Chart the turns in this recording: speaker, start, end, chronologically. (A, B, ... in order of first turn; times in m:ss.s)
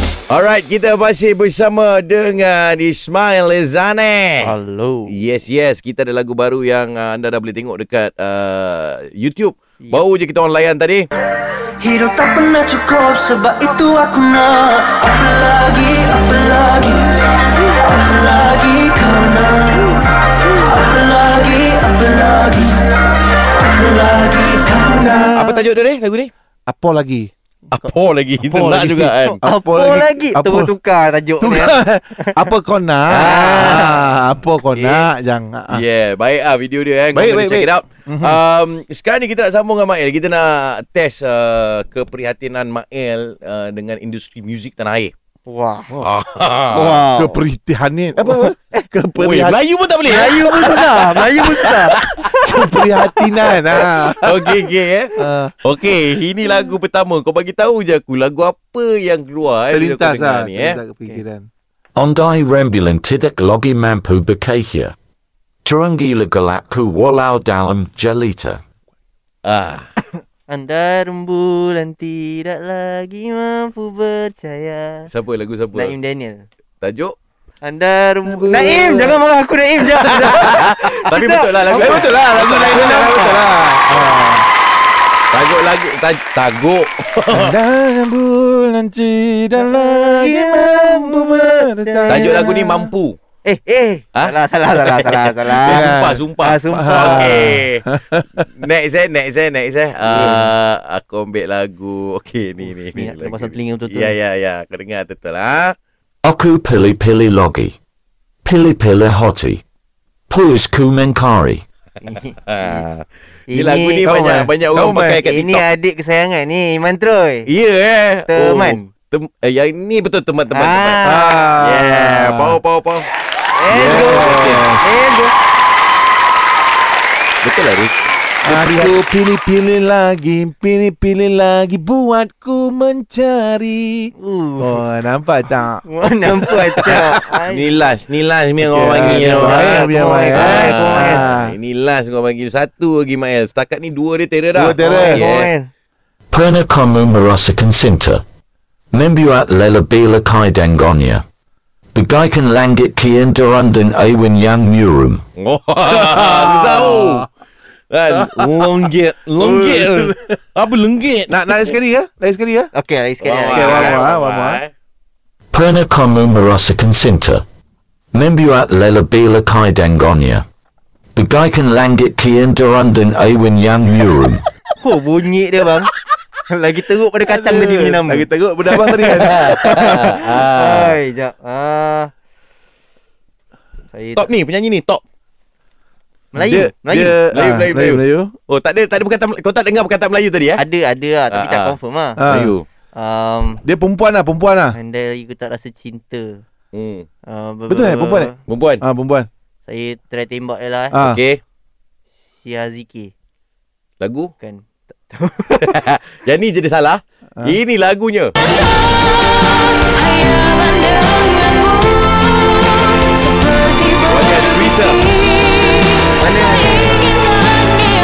0:00.3-0:04.5 A
0:04.4-0:05.1 B
0:05.1-0:11.0 A
0:11.8-0:17.0 C
0:17.8-0:20.0 C
0:20.6-0:22.8 C
0:23.6-0:25.4 C
0:25.1-0:25.6 D
0:25.3-0:26.3 A
0:26.7-0:27.3 D
0:27.7-0:29.4 A
0:28.4-0:30.7 D
0:29.4-0:32.4 B
0:31.4-0:35.8 D
0:33.1-0:34.0 A
0:33.2-0:34.0 B
0:34.8-0:35.1 A
0:35.7-0:45.1 A
0:37.1-0:38.4 D
0:45.5-0:46.0 B
0:46.0-0:47.0 A
0:46.7-0:47.4 B
0:47.2-0:49.6 D
0:48.3-0:48.8 B
0:49.2-0:52.3 A
0:50.0-0:52.3 B
0:52.5-0:54.6 D
0:53.8-1:00.8 A
0:55.2-0:55.5 D
0:59.7-1:01.5 D
1:02.0-1:05.0 E
1:05.6-1:08.6 E
1:09.4-1:09.9 A
1:10.5-1:15.1 B
1:15.1-1:16.0 A
1:15.7-1:16.4 B
1:16.8-1:17.2 A
1:17.6-1:23.4 B
1:18.3-1:19.2 D
1:20.2-1:23.5 A
1:21.7-1:24.5 D
1:25.3-1:27.6 A
1:27.3-1:32.9 D
1:29.6-1:32.4 B
1:32.1-1:33.2 A
1:33.4-1:37.6 B
1:34.2-1:37.8 A
1:35.6-1:38.5 D
1:38.5-1:45.7 A
1:40.1-1:40.5 D
1:42.7-1:44.2 B
1:46.2-1:47.8 E
1:48.4-1:49.6 E
1:50.3-1:51.6 E
1:52.0-1:52.8 B
1:52.5-1:55.7 A
1:53.5-1:57.5 B
1:54.8-1:55.1 D
1:57.5-2:03.1 A
1:58.3-1:58.8 B
2:00.5-2:01.6 B
2:01.0-2:02.6 D
2:03.6-2:05.3 B
2:03.7-2:04.8 D
2:03.7-2:04.7 A
2:07.4-2:07.9 A
2:08.4-2:15.8 D
2:08.4-2:09.0 A
2:14.2-2:14.8 B
2:15.8-2:17.8 B
2:16.8-2:17.2 D
2:16.8-2:25.5 A
2:18.6-2:21.6 D
2:18.9-2:21.3 B
2:24.5-2:25.2 D
2:24.8-2:25.7 B
2:26.3-2:28.2 E
2:28.9-2:31.2 E
2:32.0-2:35.2 E
2:35.4-2:37.3 A
2:35.9-2:37.3 D
2:37.9-2:41.7 A
2:38.2-2:38.5 D
2:39.4-2:40.2 D
2:41.3-2:42.7 D
2:42.7-2:44.0 B
2:43.2-2:44.7 A
2:43.5-2:44.6 D
2:45.5-2:47.4 E
2:48.1-2:50.4 E
2:51.2-2:54.4 E
2:54.8-2:55.9 B
2:56.5-2:58.3 B
2:57.3-3:00.0 D
2:58.7-3:01.0 A
2:59.4-3:02.1 B
3:03.9-3:04.3 B
3:04.2-3:05.0 A
3:06.3-3:07.2 B
3:06.4-3:08.3 D
3:07.3-3:10.6 A
3:10.6-3:12.2 B
3:11.3-3:11.8 A
3:12.2-3:12.5 D
3:12.3-3:12.6 A
3:12.9-3:13.6 B
3:13.6-3:14.8 D
3:14.7-3:16.4 B
3:16.7-3:17.1 A
3:17.3-3:18.4 B
3:17.7-3:18.3 D
3:18.5-3:18.8 A
3:18.8-3:19.3 D
3:19.6-3:21.0 B
3:20.9-3:21.2 D
3:20.9-3:21.4 A
3:22.4-3:23.1 B
3:24.0-3:24.3 A
3:24.4-3:25.8 B
3:25.6-3:28.3 A
3:33.7-3:35.1 A
3:36.2-3:37.1 B